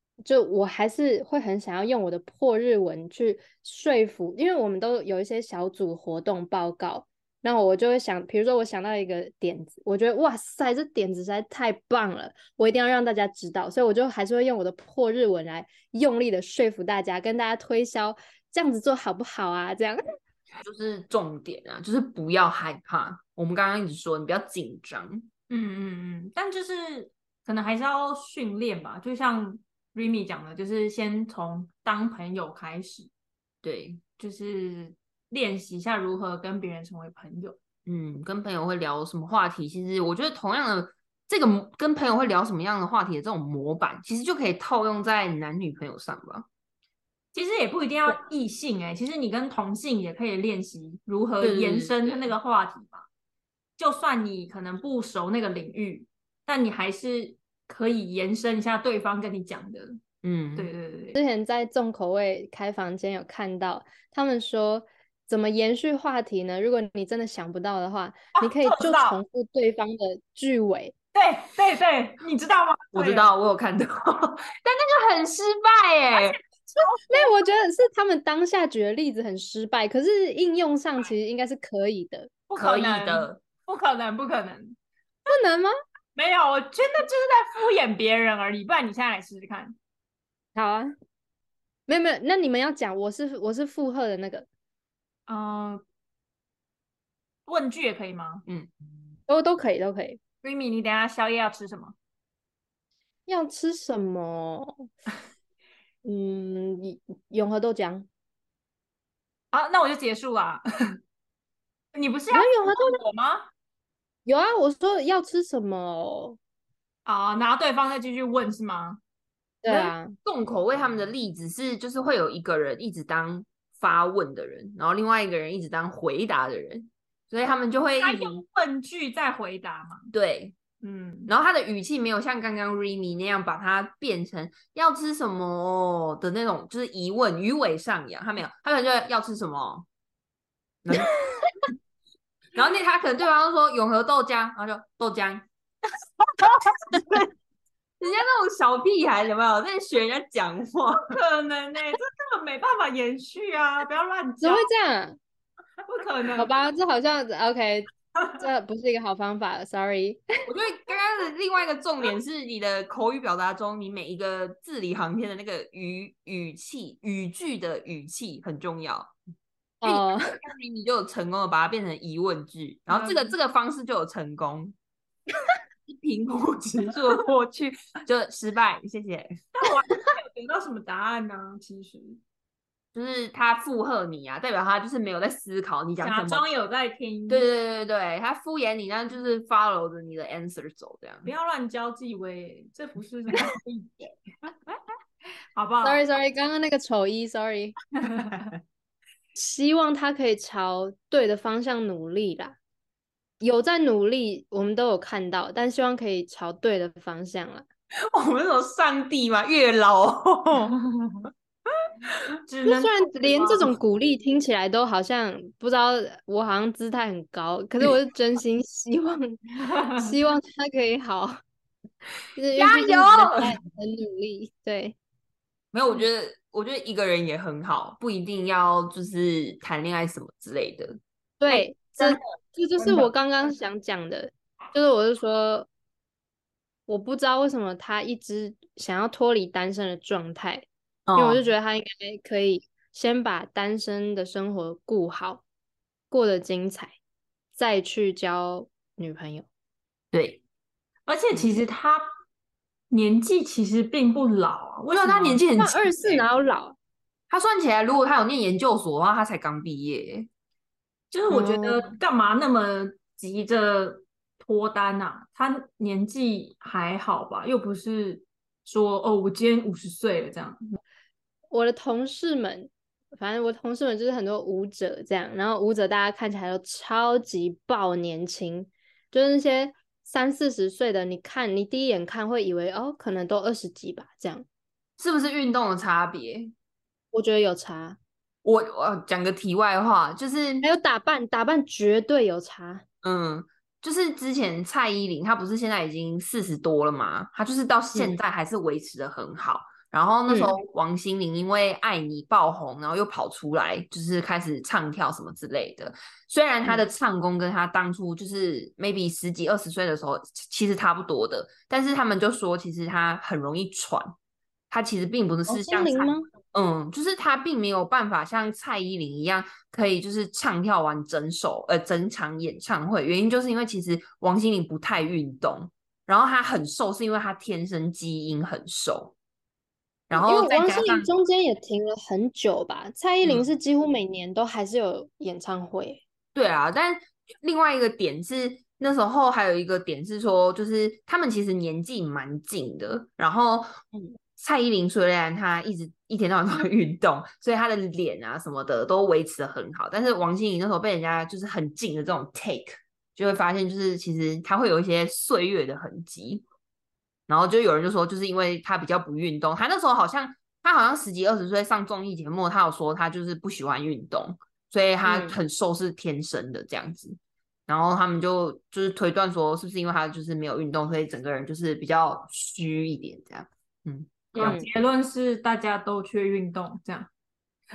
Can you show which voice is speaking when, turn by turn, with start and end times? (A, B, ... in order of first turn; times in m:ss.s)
0:00.2-0:20.0 A
0:20.6-0:25.3 B
0:25.5-0:33.1 C
0:33.6-0:34.0 B
0:34.2-0:37.6 C
0:37.9-0:46.5 B
0:47.3-0:53.1 C
0:51.4-0:52.3 B
0:53.8-1:00.0 C
1:00.2-1:00.7 B
1:00.6-1:01.2 C
1:01.2-1:10.9 A
1:08.4-1:09.2 C
1:11.1-1:13.3 C
1:12.9-1:16.4 B
1:16.8-1:17.2 C
1:17.1-1:22.3 A
1:22.5-1:24.8 C
1:22.6-1:23.4 B
1:25.3-1:25.7 A
1:26.2-1:29.8 C
1:30.6-1:30.9 A
1:31.9-1:34.5 A
1:35.3-1:35.8 C
1:37.5-1:38.4 C
1:38.5-1:38.7 B
1:39.3-1:40.2 A
1:40.4-1:42.0 C
1:43.3-1:44.9 A
1:46.0-1:48.1 A
1:49.5-1:50.6 C
1:51.9-1:53.5 C
1:52.3-1:53.0 A
1:54.3-1:56.4 A
1:57.1-1:59.0 C
1:59.6-2:00.2 A
1:59.8-2:08.4 B
2:08.0-2:10.1 C
2:10.1-2:10.6 B
2:10.8-2:11.3 C
2:11.3-2:19.9 B
2:20.8-2:21.2 B
2:22.6-2:25.5 B
2:26.2-2:27.2 C
2:28.0-2:31.2 B
2:30.9-2:34.7 C
2:34.4-2:35.2 A
2:35.9-2:36.5 C
2:36.4-2:40.2 A
2:40.5-2:49.1 B
2:49.8-2:50.4 A
2:49.8-2:54.8 B
2:52.9-2:53.3 C
2:55.9-2:59.4 B
2:59.6-3:02.2 C
3:02.9-3:06.5 B
3:06.0-3:07.5 C
3:07.3-3:11.3 B
3:11.2-3:13.9 C
3:15.6-3:16.0 C
3:15.8-3:17.8 A
3:18.0-3:18.5 C
3:19.4-3:22.6 A
3:23.4-3:27.7 A
3:28.1-3:30.8 B
3:30.9-3:31.3 C
3:32.4-3:33.7 C
3:32.7-3:39.4 A
3:39.6-3:40.1 C
3:40.0-3:41.4 A
3:42.4-3:45.0 A
3:42.6-3:43.5 B
3:45.7-3:51.0 B
3:51.4-3:55.7 A
3:51.5-3:52.2 B
3:56.9-4:05.4 A
4:01.1-4:01.4 B
4:06.1-4:07.0 A
4:07.6-4:09.5 A
4:10.1-4:10.4 B
4:11.1-4:12.1 C
4:12.9-4:15.4 C
4:14.9-4:16.2 B
4:15.6-4:16.8 A
4:17.3-4:20.3 B
4:21.1-4:30.7 C
4:21.3-4:21.9 A
4:31.5-4:44.5 A
4:45.0-4:46.5 B
4:47.1-4:48.0 A
4:48.4-4:50.6 B
4:50.6-4:52.8 A
4:53.0-5:14.2 B
5:00.3-5:00.6 A
5:14.7-5:29.2 B
5:15.5-5:16.3 A
5:30.1-5:31.1 B
5:30.1-5:36.0 A
5:33.2-5:33.5 B
5:36.4-5:43.8 B
5:44.4-5:56.4 B
5:57.3-6:14.6 B
6:05.0-6:05.4 A
6:14.4-6:17.1 C
6:14.4-6:14.7 A